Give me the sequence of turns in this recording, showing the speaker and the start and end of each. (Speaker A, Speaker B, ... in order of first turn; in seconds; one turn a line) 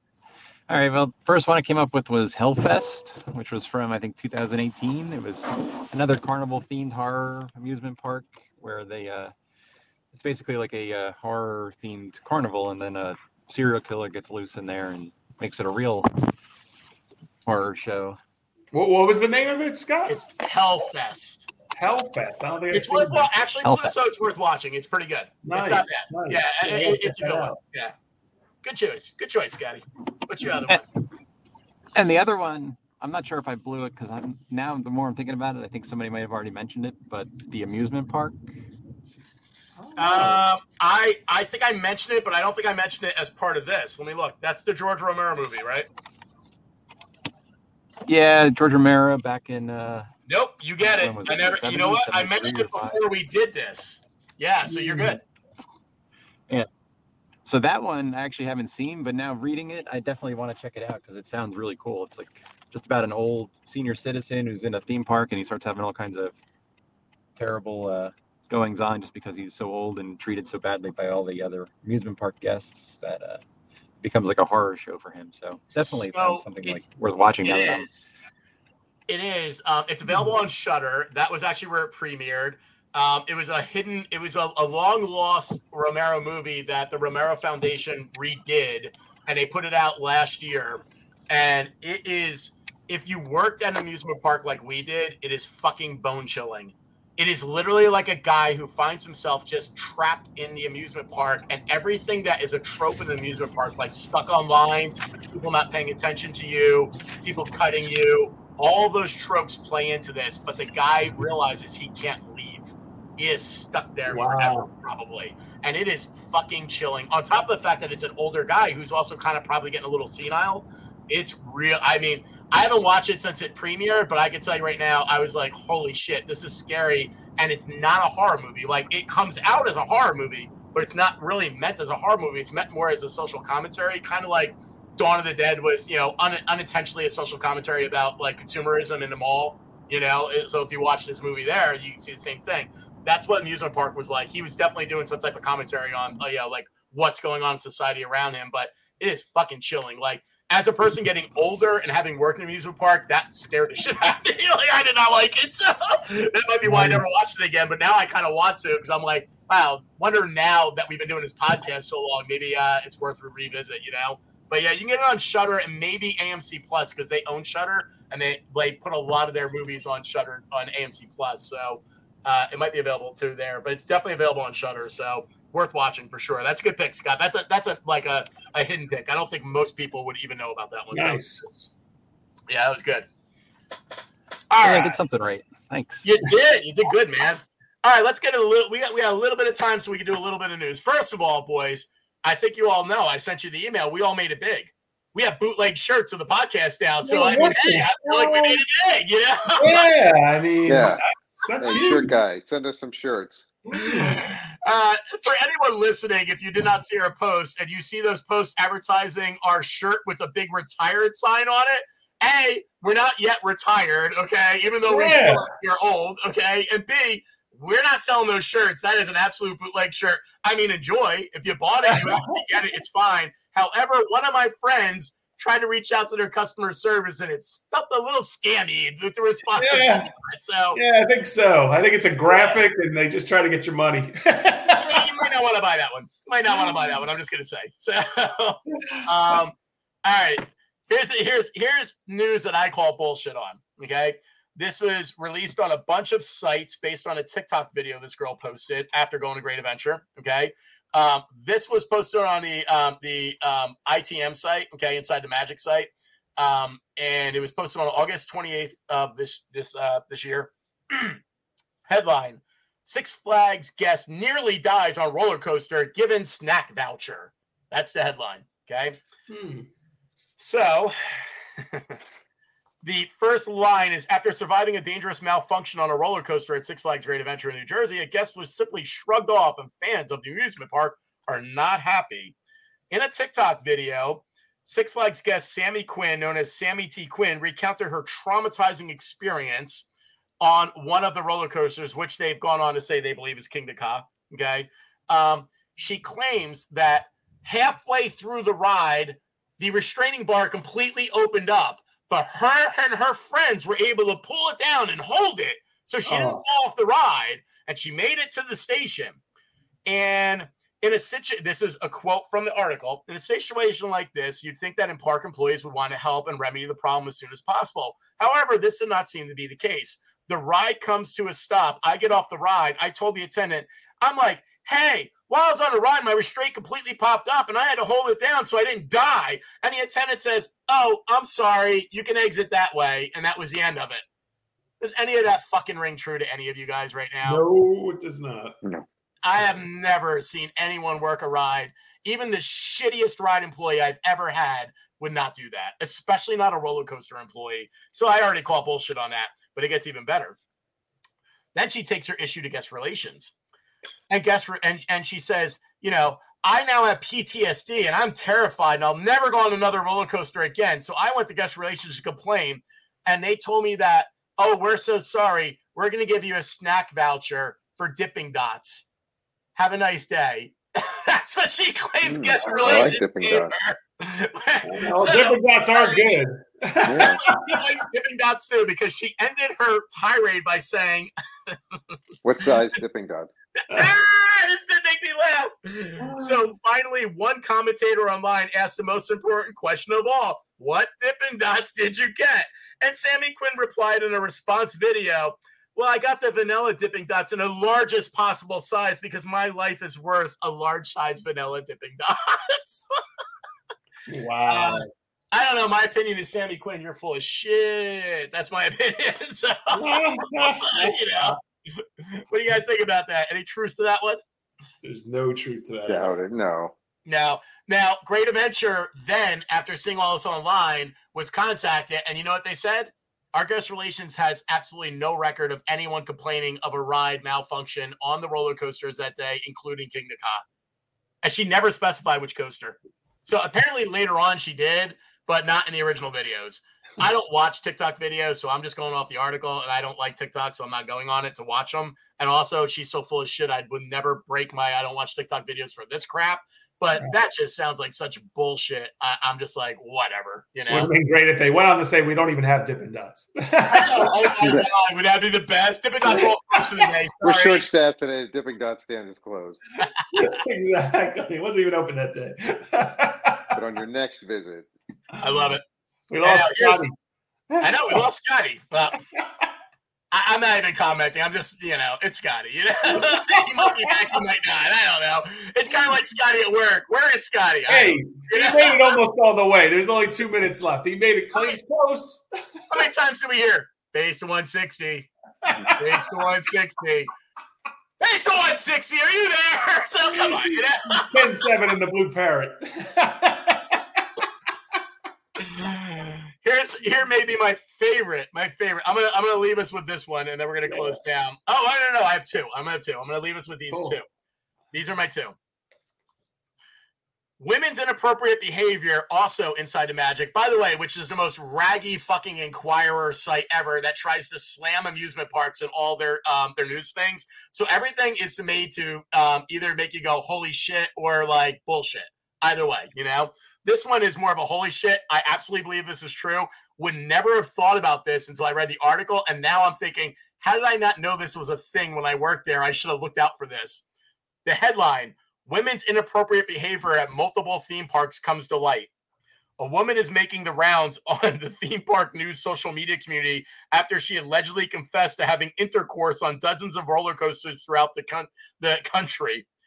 Speaker A: 0.7-9.3
Speaker A: 10.1-16.1
Speaker A: 17.4-18.2
Speaker B: 18.7-20.2
Speaker C: 20.1-21.4
Speaker B: 21.8-23.3
Speaker C: 22.7-27.9
Speaker A: 23.6-23.9
Speaker B: 25.4-27.6
Speaker C: 28.6-30.8
Speaker A: 31.9-38.5
Speaker B: 39.8-40.4
Speaker C: 40.0-45.9
Speaker A: 48.1-50.1
Speaker C: 50.3-55.2
Speaker A: 50.8-53.0
Speaker B: 54.6-55.2
Speaker A: 57.4-66.3
Speaker A: 67.4-73.4
Speaker A: 74.0-78.0
Speaker C: 75.7-76.8
Speaker C: 77.4-78.1
Speaker C: 79.1-181.2
Speaker B: 114.1-114.7
Speaker B: 156.6-157.0
Speaker B: 180.9-181.7
Speaker C: 182.5-183.1
Speaker C: 184.5-185.0
Speaker A: 184.6-186.1
Speaker C: 186.0-199.8
Speaker B: 197.0-198.6
Speaker B: 199.6-202.1
Speaker D: 200.7-201.0
Speaker D: 201.6-203.5
Speaker C: 203.7-230.8
Speaker B: 203.8-204.2
Speaker B: 214.8-215.4
Speaker B: 221.9-222.2
Speaker B: 229.6-230.1
Speaker B: 230.7-235.0
Speaker C: 232.3-232.6
Speaker C: 234.8-261.2
Speaker B: 236.5-237.0
Speaker B: 238.9-239.4
Speaker C: 261.9-269.0
Speaker B: 269.3-269.7
Speaker C: 270.4-271.9
Speaker C: 272.8-282.3
Speaker C: 282.9-289.9
Speaker C: 290.4-309.2
Speaker B: 306.1-306.4
Speaker C: 309.9-334.0
Speaker C: 334.8-337.4
Speaker B: 337.2-338.6
Speaker C: 339.2-350.4
Speaker C: 351.5-353.3
Speaker C: 354.1-368.8
Speaker C: 369.6-376.1
Speaker D: 372.0-373.5
Speaker B: 372.4-372.9
Speaker B: 374.6-377.6
Speaker D: 376.8-377.2
Speaker C: 377.0-382.0
Speaker D: 382.2-383.3
Speaker C: 383.6-402.8
Speaker B: 386.0-386.4
Speaker B: 404.1-404.9
Speaker C: 404.5-414.2
Speaker B: 409.7-411.4
Speaker B: 414.8-416.1
Speaker D: 415.9-416.7
Speaker C: 417.1-430.4
Speaker C: 431.2-450.9
Speaker B: 450.7-454.1
Speaker C: 453.7-457.7
Speaker D: 454.4-454.6
Speaker D: 457.2-459.6
Speaker B: 460.1-463.5
Speaker D: 463.5-464.7
Speaker C: 465.2-465.6
Speaker B: 465.3-465.5
Speaker B: 466.1-466.9
Speaker C: 466.2-466.8
Speaker B: 467.5-468.0
Speaker C: 467.6-469.0
Speaker B: 469.2-469.5
Speaker C: 470.1-479.0
Speaker B: 472.9-473.8
Speaker B: 477.7-482.8
Speaker C: 482.7-485.1
Speaker B: 485.4-486.1
Speaker C: 485.7-487.1
Speaker C: 488.0-491.2
Speaker B: 490.2-493.8
Speaker C: 495.4-504.0
Speaker B: 500.7-501.0
Speaker B: 503.7-504.0
Speaker C: 504.7-505.4
Speaker C: 507.4-533.8
Speaker C: 534.4-538.9
Speaker C: 539.6-549.5